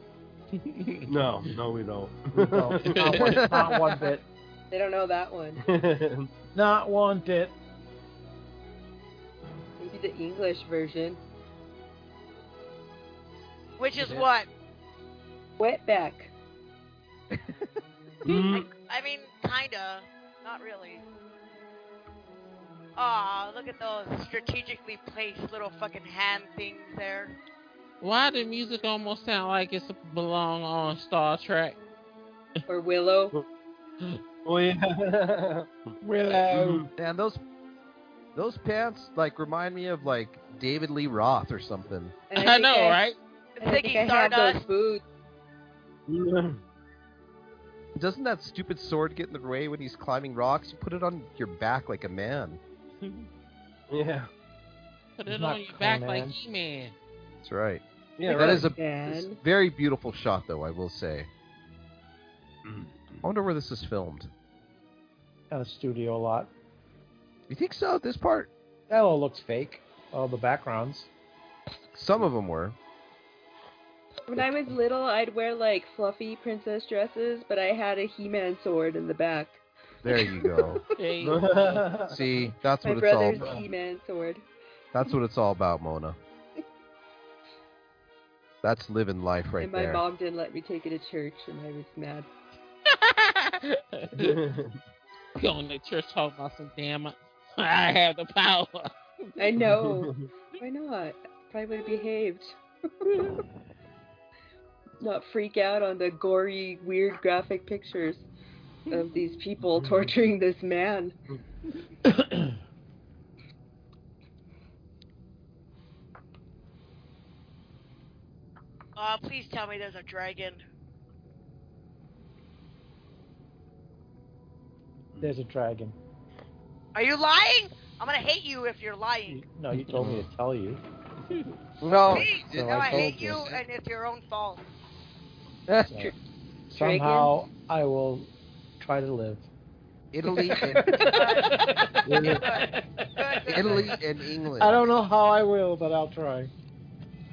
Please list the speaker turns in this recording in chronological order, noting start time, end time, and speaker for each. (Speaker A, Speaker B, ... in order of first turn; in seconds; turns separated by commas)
Speaker A: 0.6-1.1, Speaker B: 1.1-3.5, Speaker C: 2.4-4.3, Speaker D: 3.1-4.0, Speaker E: 4.7-5.6, Speaker B: 5.6-6.3, Speaker C: 6.5-7.5, Speaker E: 9.8-11.2, Speaker F: 13.8-14.5, Speaker E: 15.6-16.3, Speaker B: 18.2-18.7, Speaker F: 18.5-21.0, Speaker F: 23.0-27.4, Speaker A: 28.0-31.8, Speaker E: 32.7-33.4, Speaker B: 34.4-35.9, Speaker C: 36.0-36.9, Speaker B: 36.5-36.9, Speaker D: 37.0-37.4, Speaker D: 38.4-42.1, Speaker E: 42.3-43.0, Speaker A: 42.4-43.2, Speaker F: 43.6-44.7, Speaker E: 43.6-45.0, Speaker B: 46.1-46.6, Speaker D: 48.0-52.6, Speaker A: 53.0-53.3, Speaker B: 53.9-54.3, Speaker A: 55.2-57.0, Speaker C: 55.3-56.4, Speaker D: 57.4-61.3, Speaker B: 58.2-58.7, Speaker E: 58.3-59.4, Speaker D: 63.2-64.3, Speaker C: 65.5-66.5, Speaker D: 67.5-68.5, Speaker C: 68.9-71.1, Speaker D: 71.9-72.8, Speaker E: 74.3-79.6, Speaker D: 80.0-80.8, Speaker E: 80.2-80.7, Speaker A: 81.0-82.0, Speaker B: 81.2-82.2, Speaker D: 82.1-83.7, Speaker E: 82.8-84.5, Speaker D: 84.9-86.2, Speaker D: 88.6-90.0, Speaker E: 89.6-92.3, Speaker A: 92.9-94.4, Speaker B: 94.2-94.8, Speaker A: 95.4-99.0, Speaker E: 99.4-103.4, Speaker B: 99.6-100.3, Speaker E: 105.0-108.3, Speaker E: 108.9-111.2, Speaker B: 109.8-110.1, Speaker C: 112.0-112.5, Speaker F: 119.0-120.6, Speaker C: 125.2-126.0, Speaker F: 127.0-129.4, Speaker C: 129.3-130.8, Speaker D: 129.9-130.3, Speaker D: 131.8-133.6, Speaker F: 132.0-134.6, Speaker C: 132.5-133.4, Speaker D: 135.7-136.1, Speaker C: 135.9-136.1, Speaker C: 136.7-139.5, Speaker E: 136.7-137.3, Speaker D: 140.1-141.3, Speaker C: 140.4-144.0, Speaker F: 141.0-143.9, Speaker B: 142.1-142.5, Speaker D: 143.5-144.9, Speaker C: 144.6-146.5